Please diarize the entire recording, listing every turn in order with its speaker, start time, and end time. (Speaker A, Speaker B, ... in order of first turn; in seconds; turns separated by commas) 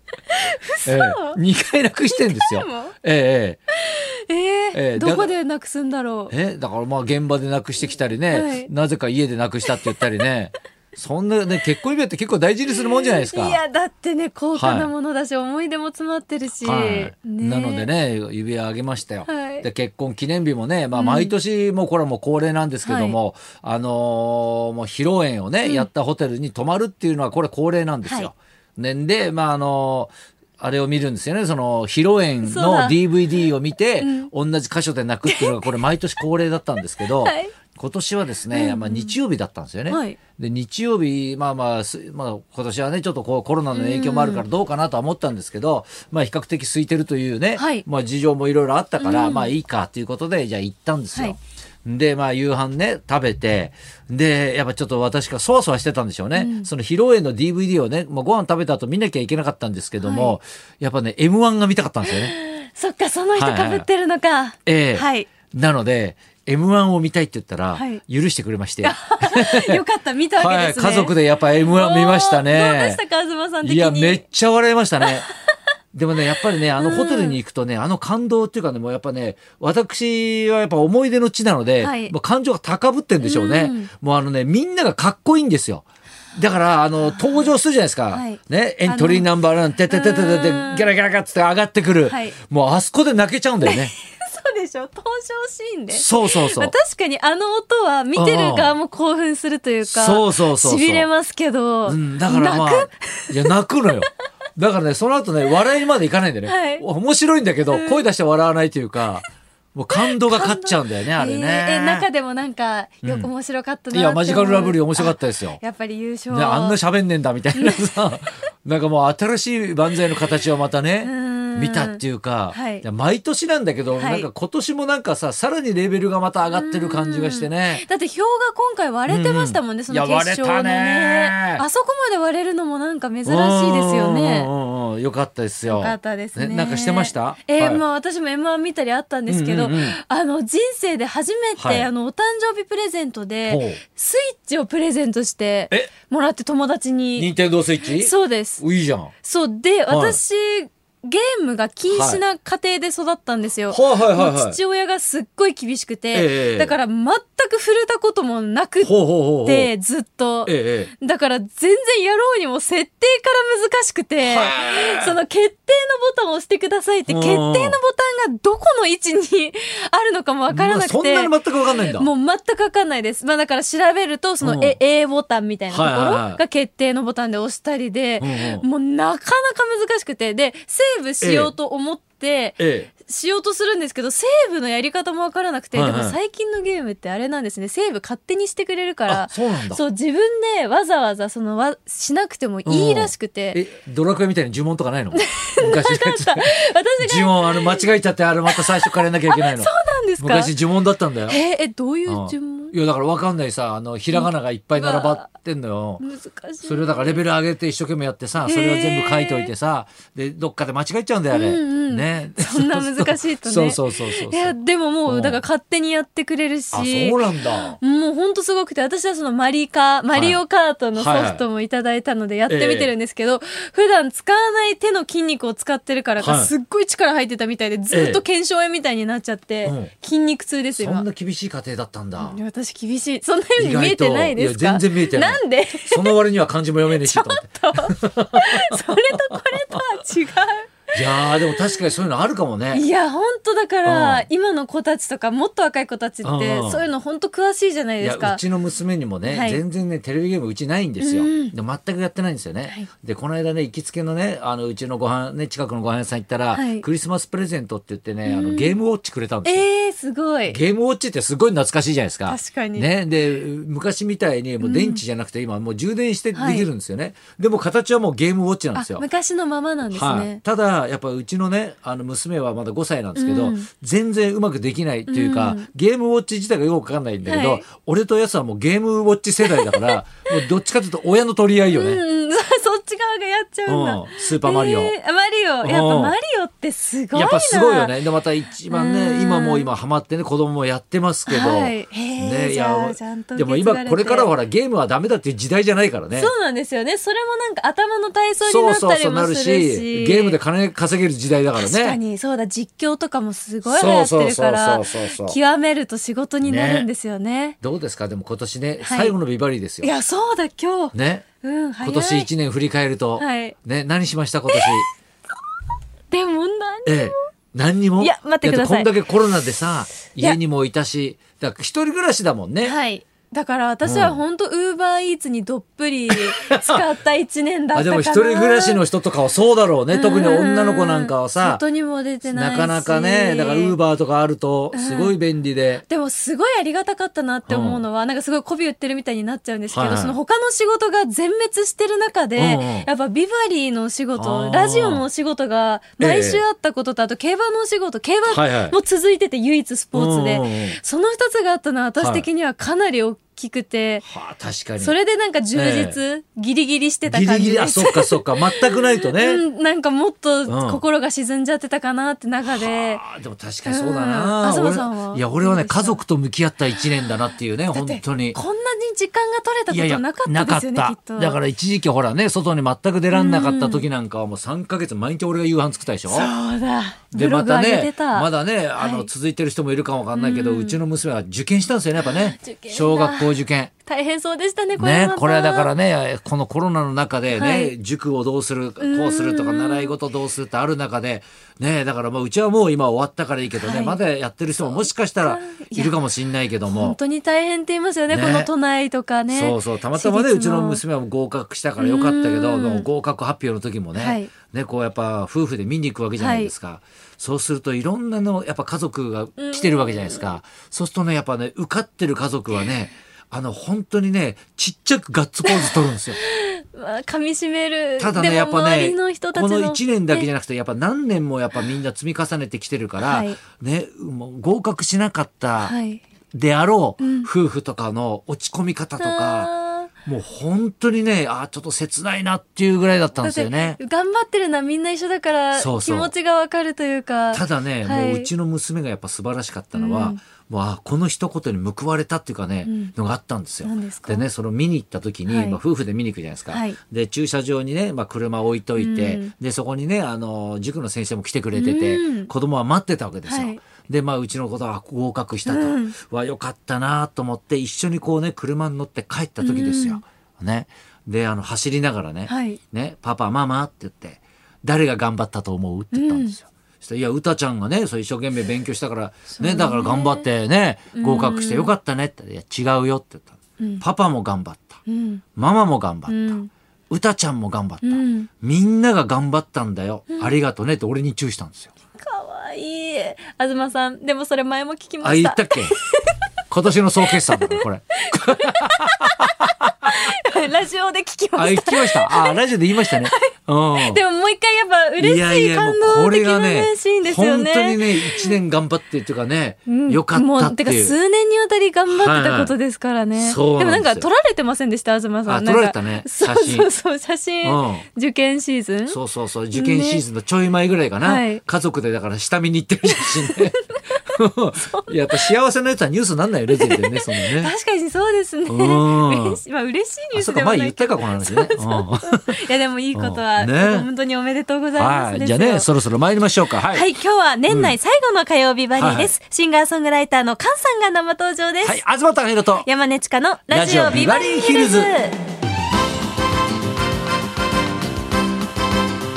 Speaker A: 0.3-1.4, Speaker B: 0.8-3.6, Speaker A: 2.1-2.9, Speaker A: 3.7-6.3, Speaker B: 4.7-5.3, Speaker B: 6.3-13.6, Speaker A: 8.3-8.7, Speaker A: 12.7-17.9, Speaker B: 14.6-14.9, Speaker B: 16.6-62.3, Speaker A: 19.2-19.7, Speaker A: 20.9-21.3, Speaker A: 22.9-23.2, Speaker A: 28.0-28.3, Speaker A: 32.4-33.0, Speaker A: 34.0-34.3, Speaker A: 35.2-35.5, Speaker A: 37.2-37.5, Speaker A: 38.5-39.1, Speaker A: 39.9-40.2, Speaker A: 43.7-44.4, Speaker A: 47.5-47.9, Speaker A: 49.0-49.5, Speaker A: 56.3-56.7, Speaker A: 60.0-60.4, Speaker A: 62.0-65.3, Speaker B: 63.3-63.9, Speaker B: 64.7-69.8, Speaker A: 67.7-68.0, Speaker A: 68.8-74.2, Speaker B: 70.4-73.0, Speaker B: 73.6-75.3, Speaker A: 75.0-75.3, Speaker B: 75.9-93.9, Speaker A: 76.8-77.4, Speaker A: 81.8-82.1, Speaker A: 83.2-83.9, Speaker A: 87.0-87.5, Speaker A: 88.1-89.3, Speaker A: 89.9-90.9, Speaker A: 92.0-92.4, Speaker A: 93.6-103.5, Speaker B: 95.9-96.7, Speaker B: 98.1-98.8, Speaker B: 99.8-101.1, Speaker B: 101.9-112.1, Speaker A: 106.4-106.8, Speaker A: 107.7-108.1, Speaker A: 109.9-116.8, Speaker B: 113.0-113.3, Speaker B: 113.9-115.6, Speaker B: 116.3-127.8, Speaker A: 117.5-117.8, Speaker A: 121.0-122.8, Speaker A: 123.9-124.3, Speaker A: 126.5-134.5, Speaker B: 129.1-131.6, Speaker B: 133.2-137.8, Speaker A: 135.7-147.3, Speaker B: 139.3-140.0, Speaker B: 141.6-141.9, Speaker B: 143.4-143.8, Speaker B: 147.2-149.1, Speaker A: 147.8-148.6, Speaker A: 149.2-193.6, Speaker B: 149.9-150.2, Speaker B: 151.9-152.2, Speaker B: 153.7-154.6, Speaker B: 156.1-156.8, Speaker B: 158.8-159.7, Speaker B: 160.4-160.9, Speaker B: 164.2-165.2, Speaker B: 167.1-167.8, Speaker B: 170.5-172.1, Speaker B: 174.4-174.8, Speaker B: 175.7-176.4, Speaker B: 178.2-178.7, Speaker B: 181.2-181.5, Speaker B: 182.6-182.9, Speaker B: 185.7-186.2, Speaker B: 189.1-189.8, Speaker B: 192.6-201.4, Speaker A: 195.1-197.9, Speaker A: 198.5-200.5, Speaker A: 201.3-202.7, Speaker B: 202.1-206.0, Speaker A: 204.1-205.2, Speaker A: 206.0-207.2, Speaker B: 206.6-214.6, Speaker A: 208.4-209.5, Speaker A: 211.3-217.2, Speaker B: 215.1-215.4, Speaker B: 216.7-217.8, Speaker A: 217.7-231.1, Speaker B: 220.1-220.4, Speaker B: 220.9-221.4, Speaker B: 222.5-222.9, Speaker B: 226.2-226.5, Speaker B: 227.9-228.2, Speaker B: 229.6-229.9, Speaker B: 230.8-232.4, Speaker A: 232.2-236.2, Speaker B: 233.6-239.8, Speaker A: 236.9-241.8, Speaker B: 240.9-242.8, Speaker A: 242.7-248.4, Speaker B: 243.8-244.3, Speaker B: 246.2-246.9, Speaker B: 248.0-259.6, Speaker A: 249.2-249.6, Speaker A: 251.0-251.5, Speaker A: 256.5-256.9, Speaker A: 258.2-258.8, Speaker A: 259.4-260.6, Speaker B: 260.5-269.0, Speaker A: 262.3-262.9, Speaker A: 264.6-265.0, Speaker A: 266.3-266.7, Speaker A: 268.7-270.4, Speaker B: 269.9-282.0, Speaker A: 273.1-273.7, Speaker A: 275.1-275.7, Speaker A: 277.2-277.6, Speaker A: 279.4-280.0, Speaker A: 281.7-287.9, Speaker B: 283.7-284.9, Speaker B: 285.6-286.1, Speaker B: 287.1-296.3, Speaker A: 288.7-289.7, Speaker A: 291.3-294.3, Speaker A: 296.1-300.4, Speaker B: 298.4-302.0, Speaker A: 301.6-307.6, Speaker B: 303.6-305.4, Speaker B: 306.4-306.9, Speaker B: 307.6-309.9, Speaker A: 308.8-309.1, Speaker A: 309.8-312.3, Speaker B: 310.9-311.2, Speaker B: 311.8-314.9, Speaker A: 313.2-313.6, Speaker A: 314.5-314.8, Speaker A: 316.1-317.2, Speaker B: 316.8-322.8, Speaker A: 318.0-318.9, Speaker A: 322.6-328.8, Speaker B: 323.8-324.2, Speaker B: 326.1-326.8, Speaker B: 327.7-331.6, Speaker A: 329.9-333.8, Speaker B: 332.2-335.8, Speaker A: 334.7-335.2, Speaker A: 335.9-354.0, Speaker B: 337.5-337.8, Speaker B: 339.7-340.2, Speaker B: 342.4-342.9, Speaker B: 344.1-345.0, Speaker B: 346.0-346.4, Speaker B: 348.3-348.8, Speaker B: 349.9-350.8, Speaker B: 352.0-352.3, Speaker B: 354.0-355.0, Speaker A: 354.8-363.0, Speaker B: 355.5-356.0, Speaker B: 357.1-359.4, Speaker B: 360.4-360.8, Speaker B: 362.4-368.4, Speaker A: 363.6-366.0, Speaker A: 367.7-371.4, Speaker B: 369.7-376.3, Speaker A: 373.1-373.9, Speaker A: 376.1-379.1, Speaker B: 377.1-383.7, Speaker A: 380.1-380.8, Speaker A: 382.0-385.7, Speaker B: 384.8-397.0, Speaker A: 387.3-387.7, Speaker A: 388.8-389.9, Speaker A: 393.6-394.0, Speaker A: 394.7-395.9, Speaker A: 396.7-400.8, Speaker B: 398.1-398.5, Speaker B: 399.3-416.2, Speaker A: 401.8-402.9, Speaker A: 404.0-404.3, Speaker A: 406.2-406.5, Speaker A: 409.4-410.3, Speaker A: 415.4-420.3, Speaker B: 418.0-425.7, Speaker A: 423.0-423.4, Speaker A: 425.6-426.0, Speaker B: 426.3-429.5, Speaker A: 427.0-427.3, Speaker A: 429.0-429.9, Speaker B: 430.0-433.8, Speaker A: 433.2-438.3, Speaker B: 435.5-436.1, Speaker B: 437.3-474.8, Speaker A: 439.7-440.2, Speaker A: 442.6-442.9, Speaker A: 443.6-444.2, Speaker A: 445.3-445.6, Speaker A: 446.5-446.8, Speaker A: 448.8-449.3, Speaker A: 451.5-452.3, Speaker A: 453.3-453.6, Speaker A: 455.4-455.9, Speaker A: 459.4-460.0, Speaker A: 462.3-462.6, Speaker A: 465.9-466.3, Speaker A: 469.4-470.2, Speaker A: 470.9-471.7, Speaker A: 474.9-475.2, Speaker B: 475.4-476.4, Speaker A: 476.1-476.5, Speaker B: 476.9-481.7, Speaker A: 477.8-478.3, Speaker A: 482.0-486.1, Speaker B: 485.0-485.7, Speaker B: 486.5-489.9, Speaker A: 487.1-489.4, Speaker A: 489.9-498.4, Speaker B: 491.4-494.0, Speaker B: 495.0-500.9, Speaker A: 499.7-509.0, Speaker B: 501.9-502.5, Speaker B: 503.2-504.1, Speaker B: 505.2-506.7, Speaker B: 507.4-507.9, Speaker B: 508.9-513.5, Speaker A: 509.5-510.0, Speaker A: 511.0-511.4, Speaker A: 512.9-513.6, Speaker B: 514.1-517.5, Speaker A: 514.6-515.3, Speaker A: 516.5-525.7, Speaker B: 518.5-519.4, Speaker B: 520.1-522.4, Speaker B: 522.9-523.9, Speaker B: 524.8-526.9, Speaker A: 526.7-531.8, Speaker B: 527.5-527.7, Speaker B: 528.7-529.1, Speaker B: 531.6-532.6, Speaker A: 532.6-535.2, Speaker B: 533.5-534.9